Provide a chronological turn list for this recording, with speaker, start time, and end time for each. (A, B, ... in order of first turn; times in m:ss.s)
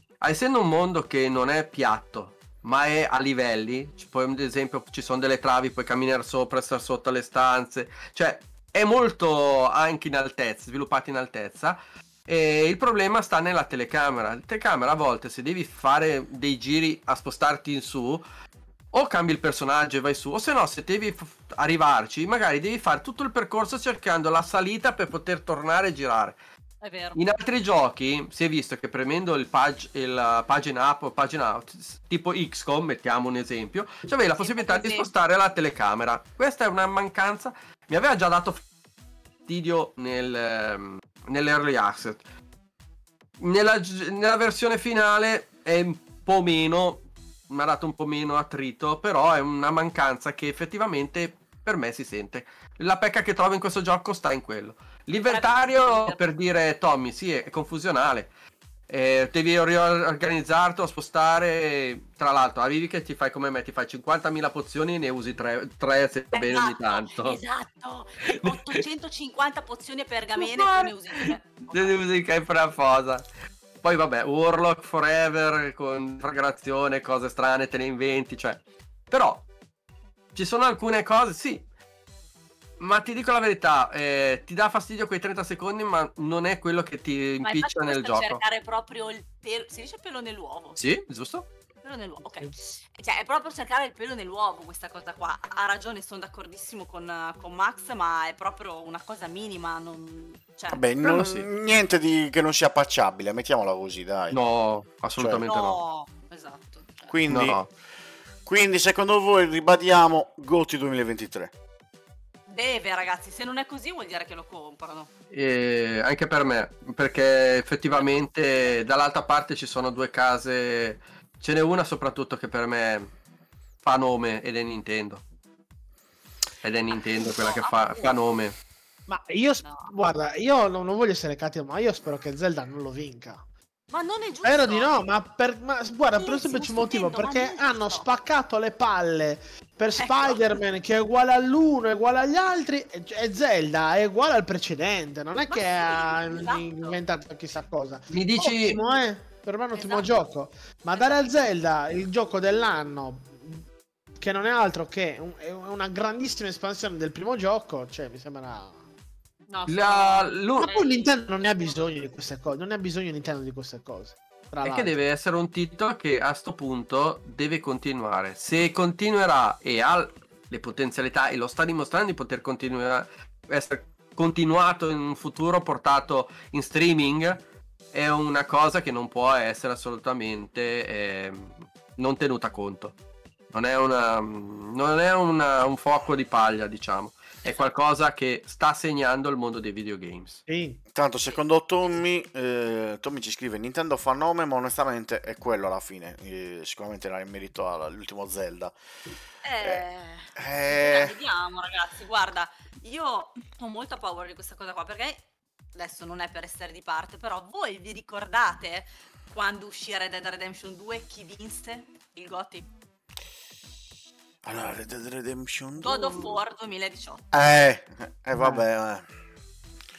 0:00.2-0:18.2 A
0:18.9-0:26.4 A
0:26.8-0:27.2 B
0:27.1-0:38.6 A
0:34.4-0:35.1 B
0:39.5-0:42.2 A
0:43.4-0:58.3 A
0:55.3-0:56.2 B
0:58.9-1:07.4 A
1:06.3-1:12.0 B
1:08.2-1:08.8 A
1:10.4-1:13.2 A
1:13.8-1:19.4 A
1:20.3-1:21.6 A
1:22.8-1:28.4 A
1:27.4-1:30.8 B
1:30.8-1:31.4 A
1:31.8-1:40.8 B
1:40.7-1:44.4 C
1:41.0-1:41.5 A
1:44.3-1:45.8 A
1:45.2-1:45.4 C
1:45.4-1:47.1 B
1:47.1-1:47.6 C
1:47.3-1:47.7 A
1:48.4-1:51.5 C
1:52.5-1:55.1 B
1:55.3-2:03.1 A
1:57.9-1:58.8 B
2:03.8-2:05.2 A
2:06.6-2:08.5 A
2:07.1-2:08.2 B
2:09.1-2:13.4 D
2:09.6-2:09.9 B
2:13.9-2:15.0 B
2:14.4-2:33.6 D
2:16.2-2:18.1 B
2:20.0-2:20.4 B
2:25.5-2:27.0 B
2:28.1-2:28.8 A
2:29.7-2:30.1 B
2:30.9-2:31.2 B
2:34.2-2:38.8 D
2:39.5-2:41.1 B
2:39.7-2:40.7 A
2:40.6-2:44.9 D
2:44.6-2:57.4 A
2:57.9-3:02.9 A
3:03.5-3:10.4 A
3:10.5-3:10.8 D
3:10.9-3:18.7 C
3:19.4-3:25.2 B
3:20.4-3:21.1 C
3:25.7-3:32.7 B
3:34.4-3:36.4 C
3:35.8-3:37.2 B
3:37.3-3:39.1 C
3:38.4-3:38.6 D